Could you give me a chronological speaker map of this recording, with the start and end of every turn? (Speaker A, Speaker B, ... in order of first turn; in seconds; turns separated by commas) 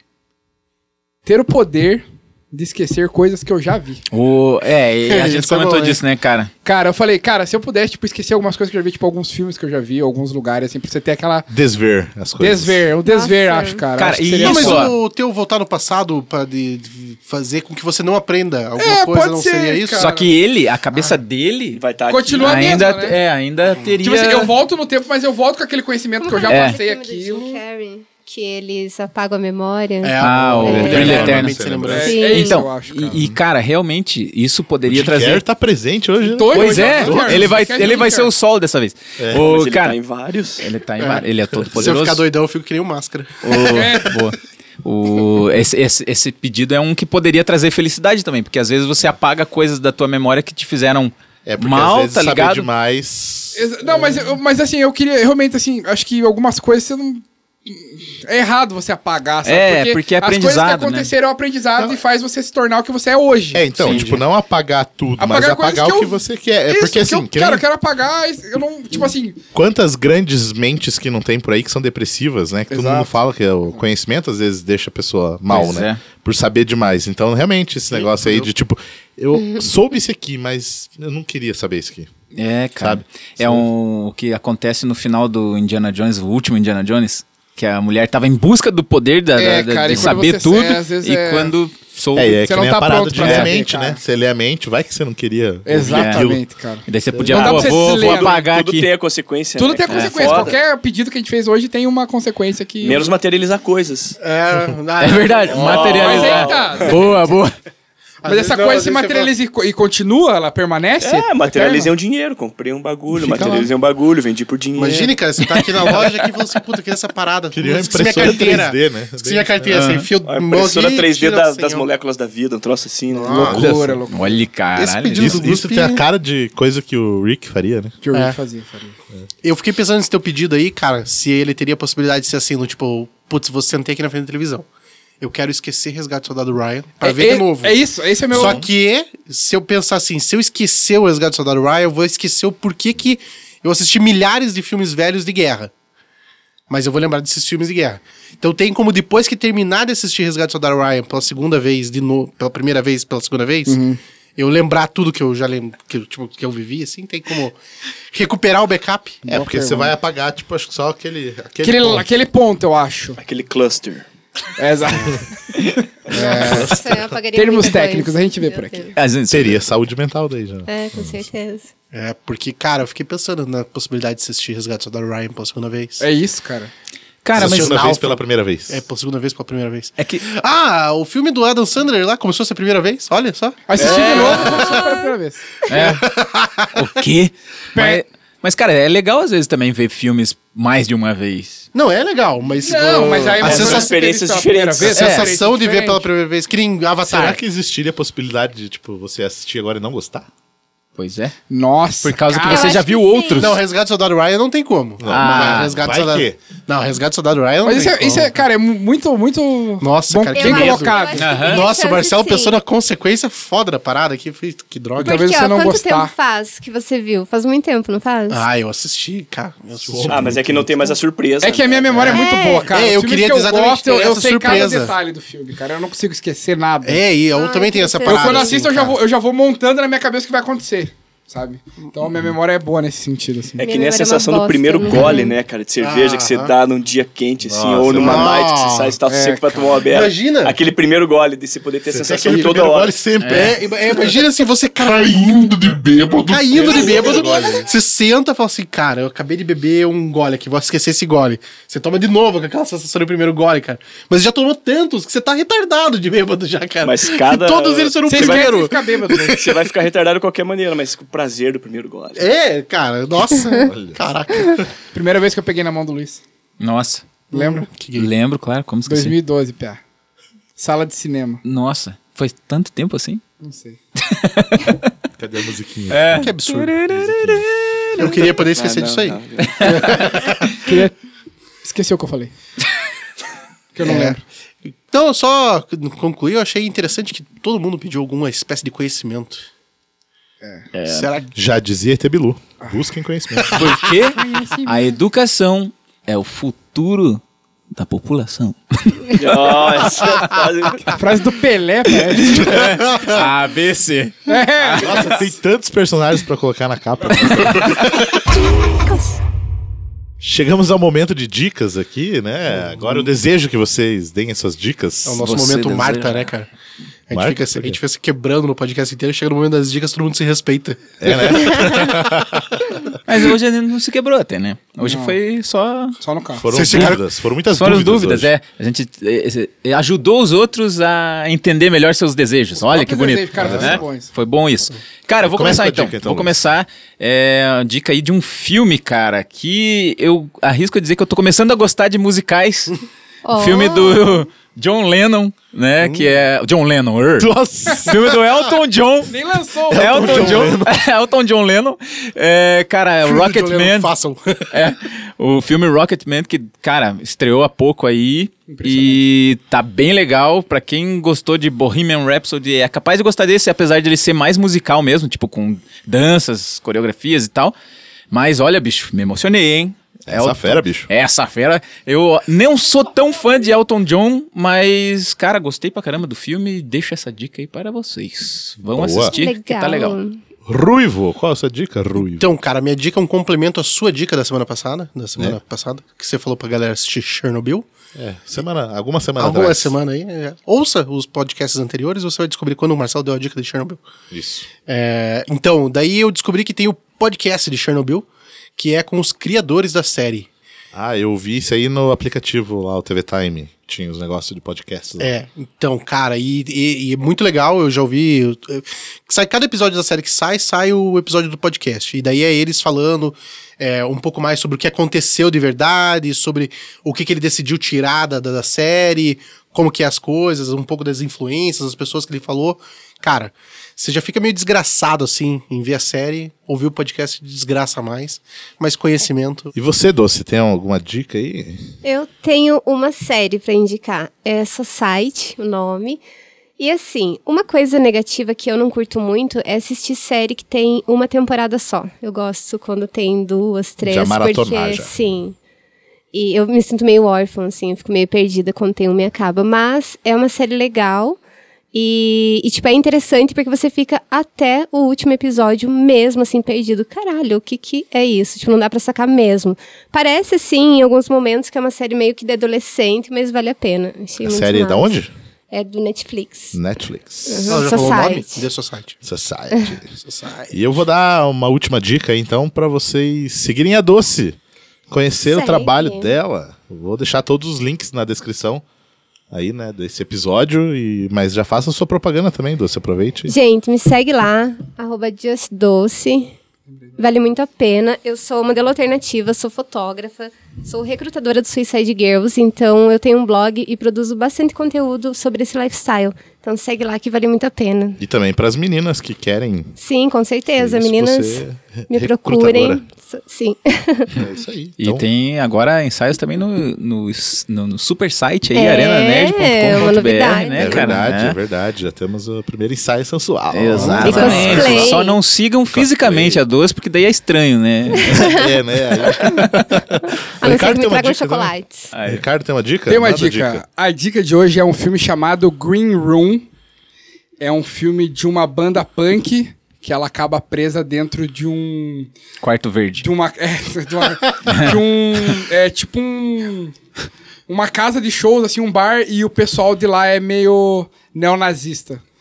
Speaker A: 1.2-4.0, Speaker B: 4.1-6.5, Speaker C: 5.0-6.0, Speaker A: 6.7-11.5, Speaker D: 11.5-12.8, Speaker A: 12.4-14.9, Speaker E: 13.1-13.8, Speaker B: 14.0-15.0, Speaker C: 14.4-20.1, Speaker A: 18.8-20.3, Speaker B: 20.0-21.8, Speaker C: 20.9-21.2, Speaker F: 21.7-22.9, Speaker A: 22.1-23.2, Speaker B: 22.4-24.5, Speaker A: 24.0-27.6, Speaker E: 26.2-31.3, Speaker B: 26.5-26.8, Speaker C: 30.0-32.3, Speaker B: 30.2-31.6, Speaker D: 30.6-32.1, Speaker A: 31.9-33.2, Speaker E: 32.0-32.6, Speaker B: 32.3-35.4, Speaker D: 34.9-37.9, Speaker A: 36.2-38.3, Speaker B: 36.5-40.0, Speaker D: 39.2-39.4, Speaker F: 39.3-40.7, Speaker B: 40.6-42.3, Speaker C: 41.0-43.9, Speaker B: 43.4-52.7, Speaker A: 43.6-44.2, Speaker D: 51.5-53.6, Speaker A: 53.5-63.7, Speaker B: 59.5-61.1, Speaker D: 63.5-67.7, Speaker C: 63.8-64.2, Speaker A: 65.2-69.4, Speaker D: 69.5-82.1, Speaker A: 72.7-73.1, Speaker B: 75.5-76.0, Speaker C: 77.9-78.5, Speaker B: 82.3-92.4, Speaker D: 82.8-83.7, Speaker A: 89.4-91.5, Speaker D: 92.1-96.4, Speaker A: 92.4-94.0, Speaker B: 93.2-93.5, Speaker A: 95.7-98.4, Speaker B: 95.9-96.3, Speaker B: 96.9-98.9, Speaker D: 97.1-97.7, Speaker F: 97.8-100.6, Speaker A: 99.6-103.1, Speaker B: 99.9-100.5, Speaker F: 102.8-104.2, Speaker C: 104.2-106.2, Speaker B: 105.0-107.5, Speaker F: 105.5-107.0, Speaker A: 105.9-107.3, Speaker C: 108.2-109.3, Speaker A: 108.2-111.9, Speaker F: 111.0-115.2, Speaker D: 113.1-113.7, Speaker C: 114.8-121.9, Speaker B: 115.5-116.0, Speaker D: 117.5-120.0, Speaker B: 119.7-120.1, Speaker F: 120.2-123.5, Speaker C: 123.1-123.7, Speaker A: 123.3-124.5, Speaker D: 123.5-124.0, Speaker B: 124.1-125.4, Speaker C: 124.8-126.0, Speaker D: 125.2-128.0, Speaker A: 128.0-129.0, Speaker C: 129.4-134.7, Speaker C: 135.2-145.7, Speaker A: 137.0-138.6, Speaker D: 138.3-138.7, Speaker C: 146.7-153.8, Speaker A: 153.7-154.0, Speaker C: 154.4-157.6, Speaker C: 158.1-159.9, Speaker D: 159.2-162.1, Speaker A: 161.6-163.2, Speaker F: 163.2-164.1, Speaker A: 164.6-165.6, Speaker A: 166.1-168.9, Speaker E: 166.2-168.9, Speaker D: 166.4-167.1, Speaker B: 169.0-169.6, Speaker D: 169.3-171.2, Speaker E: 170.7-171.7, Speaker C: 171.9-176.0, Speaker A: 176.0-176.7, Speaker B: 177.2-178.0, Speaker D: 177.4-178.8, Speaker C: 177.4-184.9, Speaker B: 180.0-180.2, Speaker A: 183.7-185.4, Speaker F: 183.8-184.4, Speaker B: 183.8-184.5, Speaker B: 185.7-186.2, Speaker C: 185.7-186.9, Speaker B: 186.7-191.7, Speaker A: 187.8-188.0, Speaker C: 191.7-194.0, Speaker A: 192.6-196.1, Speaker F: 193.0-195.3, Speaker C: 194.9-197.4, Speaker B: 195.0-195.3, Speaker D: 197.1-200.3, Speaker B: 201.0-201.4, Speaker A: 201.5-202.8, Speaker B: 202.0-203.6, Speaker E: 202.4-203.6, Speaker C: 203.4-208.4, Speaker D: 205.0-206.4, Speaker B: 205.1-205.8, Speaker A: 207.6-211.4, Speaker C: 209.8-215.3, Speaker E: 210.3-212.6, Speaker B: 211.1-211.7, Speaker A: 215.0-216.1, Speaker E: 215.0-218.4, Speaker C: 218.3-221.0, Speaker D: 219.9-220.4, Speaker F: 220.1-222.1, Speaker A: 221.4-227.1, Speaker C: 222.0-224.9, Speaker E: 222.1-222.7, Speaker C: 226.8-229.0, Speaker E: 227.3-228.6, Speaker A: 228.0-233.6, Speaker F: 233.6-243.0, Speaker E: 233.6-235.3, Speaker C: 235.8-236.5, Speaker D: 237.4-238.3, Speaker C: 237.9-239.0, Speaker A: 239.1-239.6, Speaker C: 239.8-240.6, Speaker D: 241.9-244.0, Speaker C: 242.1-242.6, Speaker B: 243.2-243.6, Speaker C: 243.3-259.5, Speaker D: 246.1-247.7, Speaker F: 256.8-262.3, Speaker A: 258.1-259.4, Speaker C: 262.2-264.7, Speaker D: 263.5-264.6, Speaker A: 264.9-266.2, Speaker B: 266.6-267.1, Speaker A: 267.3-267.7, Speaker C: 267.3-268.1, Speaker B: 267.9-269.2, Speaker A: 268.9-269.8, Speaker A: 270.6-271.4, Speaker B: 271.4-273.2, Speaker A: 273.4-273.8, Speaker B: 274.0-274.9, Speaker D: 275.2-276.3, Speaker B: 275.9-278.2, Speaker C: 276.1-277.2, Speaker D: 276.9-277.5, Speaker C: 278.0-280.6, Speaker F: 278.4-280.1, Speaker B: 279.4-279.9, Speaker A: 280.6-281.0, Speaker A: 281.6-282.3, Speaker A: 283.8-284.2, Speaker C: 283.8-284.2, Speaker C: 284.7-289.5, Speaker B: 290.7-291.1, Speaker C: 290.9-291.3, Speaker D: 291.4-293.8, Speaker B: 293.5-297.2, Speaker A: 294.1-294.9, Speaker B: 297.8-299.4, Speaker F: 299.2-301.0, Speaker A: 300.9-302.5, Speaker B: 301.9-305.0, Speaker C: 302.9-303.2, Speaker A: 304.3-305.3, Speaker D: 304.8-308.1, Speaker D: 310.2-315.3, Speaker C: 312.6-313.1, Speaker C: 315.1-316.5, Speaker B: 315.2-316.3, Speaker C: 317.1-321.9, Speaker D: 317.1-317.8, Speaker D: 321.0-322.8, Speaker B: 323.1-326.0, Speaker A: 324.8-325.2, Speaker A: 326.0-326.5, Speaker D: 326.4-328.3, Speaker B: 326.5-327.0, Speaker C: 326.6-326.9, Speaker B: 327.5-342.8, Speaker A: 332.6-334.1, Speaker D: 333.4-333.8, Speaker D: 335.2-336.4, Speaker E: 343.2-344.2, Speaker B: 343.4-349.1, Speaker C: 345.8-346.1, Speaker D: 347.2-348.2, Speaker A: 349.1-350.4, Speaker D: 349.7-350.8, Speaker B: 349.7-353.9, Speaker C: 353.0-354.6, Speaker B: 354.5-367.5, Speaker A: 358.5-359.1, Speaker B: 368.1-380.0, Speaker D: 370.1-370.9, Speaker D: 378.7-379.2, Speaker E: 379.1-380.2, Speaker D: 380.4-382.3, Speaker C: 382.0-387.7, Speaker D: 387.9-389.8, Speaker C: 389.2-393.8, Speaker D: 394.1-394.5, Speaker C: 394.7-398.1, Speaker C: 398.6-400.3, Speaker D: 400.7-405.1, Speaker C: 405.0-429.5, Speaker D: 429.5-431.6, Speaker E: 431.8-436.0, Speaker E: 436.6-445.4, Speaker D: 443.8-444.9, Speaker E: 446.1-451.2, Speaker E: 451.7-465.0, Speaker D: 464.2-465.1, Speaker E: 465.5-466.6, Speaker D: 466.5-467.7, Speaker E: 467.3-468.5, Speaker C: 467.5-469.0, Speaker D: 469.1-469.8, Speaker C: 469.9-470.6, Speaker D: 470.5-474.4, Speaker D: 474.9-478.6, Speaker E: 475.3-476.1, Speaker D: 479.3-483.3, Speaker E: 483.3-486.3, Speaker E: 487.0-498.0, Speaker D: 498.0-499.7, Speaker E: 499.8-504.2, Speaker D: 500.6-502.8, Speaker D: 504.2-505.1, Speaker B: 504.8-511.4, Speaker E: 508.5-511.0, Speaker D: 510.5-515.0, Speaker B: 513.5-518.3, Speaker C: 513.7-514.5, Speaker E: 514.0-515.2, Speaker D: 515.7-516.4, Speaker E: 518.0-518.5, Speaker D: 518.0-523.6, Speaker B: 519.2-519.6, Speaker E: 520.4-521.9, Speaker B: 521.9-522.2, Speaker A: 522.9-526.5, Speaker A: 527.4-532.1, Speaker B: 532.4-533.0, Speaker A: 533.0-536.8, Speaker B: 534.5-534.8, Speaker A: 537.5-542.0